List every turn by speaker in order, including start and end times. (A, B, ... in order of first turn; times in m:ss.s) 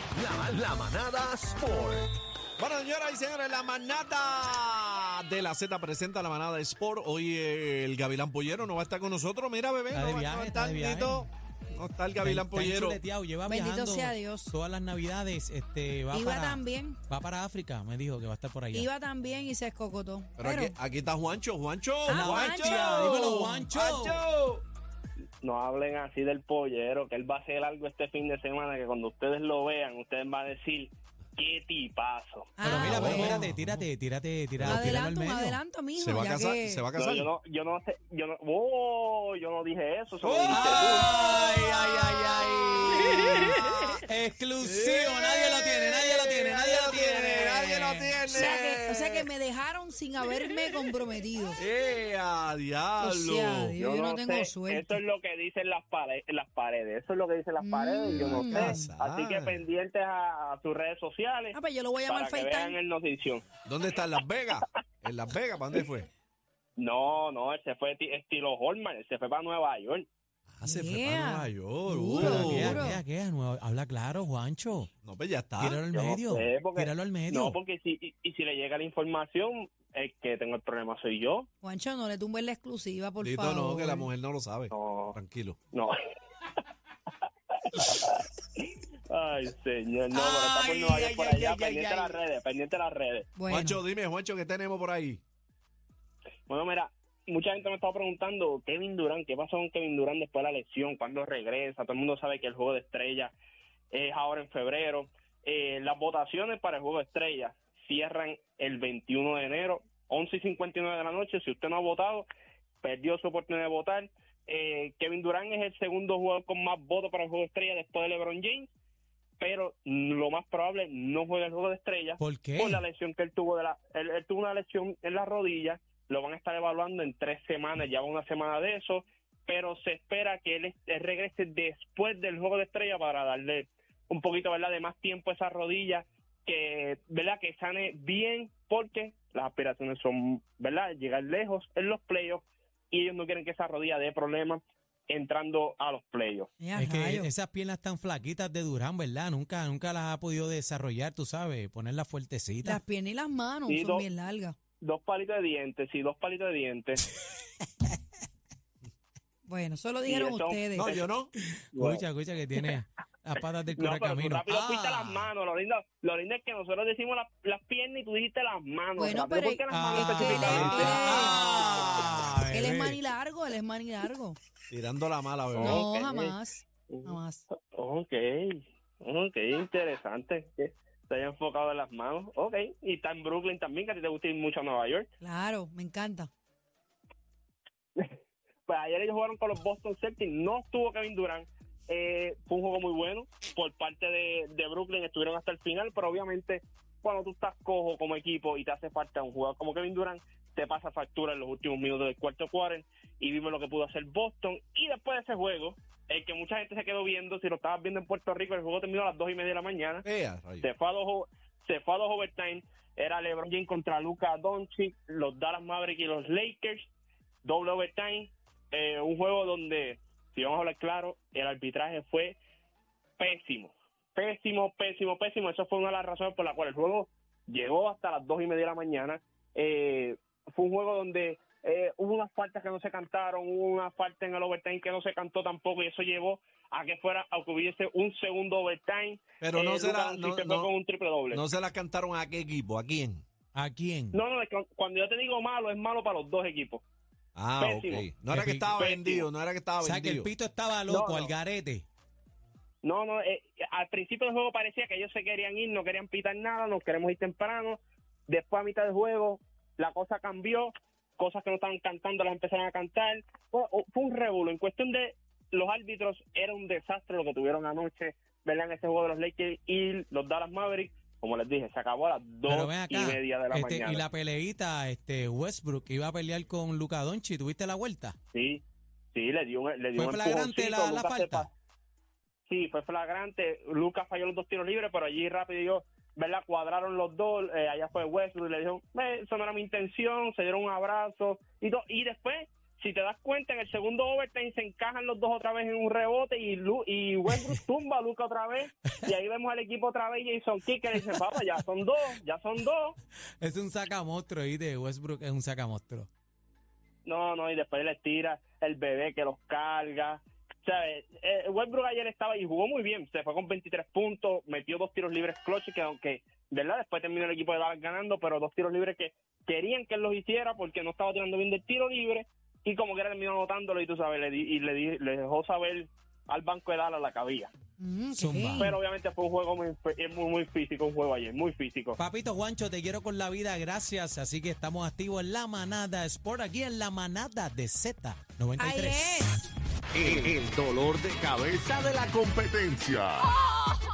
0:00.1-0:02.1 A
0:02.6-0:13.0 B
0:09.9-0:11.3 C
0:12.2-0:18.9 C
0:13.5-0:14.5 D
0:16.1-0:17.0 D
0:18.7-0:20.7 D
0:20.4-0:24.6 B
0:22.1-0:23.6 D
0:22.1-0:24.2 C
0:25.4-0:32.6 E
0:32.6-0:33.4 D
0:32.6-0:35.6 C
0:32.6-0:33.8 B
0:34.6-0:34.9 B
0:34.6-0:36.8 D
0:36.0-0:37.3 B
0:37.0-0:41.1 E
0:40.2-0:40.7 B
0:40.5-0:48.1 C
0:43.1-0:44.0 B
0:44.6-0:49.3 B
0:48.3-0:51.6 D
0:51.6-0:53.8 B
0:53.0-0:55.0 D
0:53.8-1:01.6 E
0:57.6-0:58.8 D
0:58.1-0:59.6 B
1:01.5-1:02.8 D
1:02.1-1:03.5 E
1:03.6-1:06.1 B
1:06.8-1:10.1 E
1:10.5-1:12.8 B
1:10.6-1:13.0 D
1:12.2-1:14.9 C
1:15.0-1:15.8 B
1:15.6-1:17.6 C
1:15.9-1:21.5 E
1:21.6-1:24.1 D
1:23.2-1:25.6 B
1:24.7-1:25.2 E
1:27.7-1:33.3 E
1:30.1-1:32.2 C
1:33.4-1:33.8 D
1:33.5-1:35.2 B
1:36.5-1:43.3 E
1:43.9-1:52.3 E
1:52.8-1:58.7 E
1:59.4-2:26.5 E
2:02.2-2:02.8 C
2:26.6-2:27.3 D
2:26.8-2:32.8 C
2:32.6-2:34.6 D
2:33.7-2:34.1 E
2:34.8-2:37.0 E
2:39.5-2:40.9 D
2:40.0-2:41.0 E
2:40.8-2:41.3 B
2:41.7-2:42.0 E
2:41.8-2:45.3 C
2:43.8-2:52.2 E
2:49.0-2:51.4 D
2:49.7-2:53.0 C
2:50.3-2:51.0 B
2:51.6-2:52.2 B
2:52.5-2:54.4 D
2:54.7-2:55.8 B
2:55.6-2:57.4 D
2:55.6-3:05.1 E
3:05.2-3:06.3 D
3:08.0-3:30.1 E
3:30.0-3:30.7 B
3:30.6-3:36.9 E
3:37.4-3:42.4 E
3:43.2-4:01.4 E
3:59.4-4:00.7 B
4:01.3-4:03.2 B
4:03.6-4:04.2 C
4:04.1-4:06.8 E
4:07.4-4:10.3 B
4:07.6-4:08.1 E
4:08.3-4:08.7 C
4:08.8-4:09.3 E
4:09.8-4:11.8 C
4:10.9-4:11.3 E
4:12.8-4:34.1 E
4:32.5-4:38.2 C
4:38.3-4:41.5 E
4:40.0-4:41.5 C
4:42.5-5:03.0 E
5:03.4-5:06.1 C
5:07.0-5:27.5 E
5:27.8-5:28.8 D
5:28.1-5:28.7 C
5:28.6-5:32.0 E
5:32.0-5:39.2 C
5:38.6-5:39.5 D
5:40.0-5:43.3 A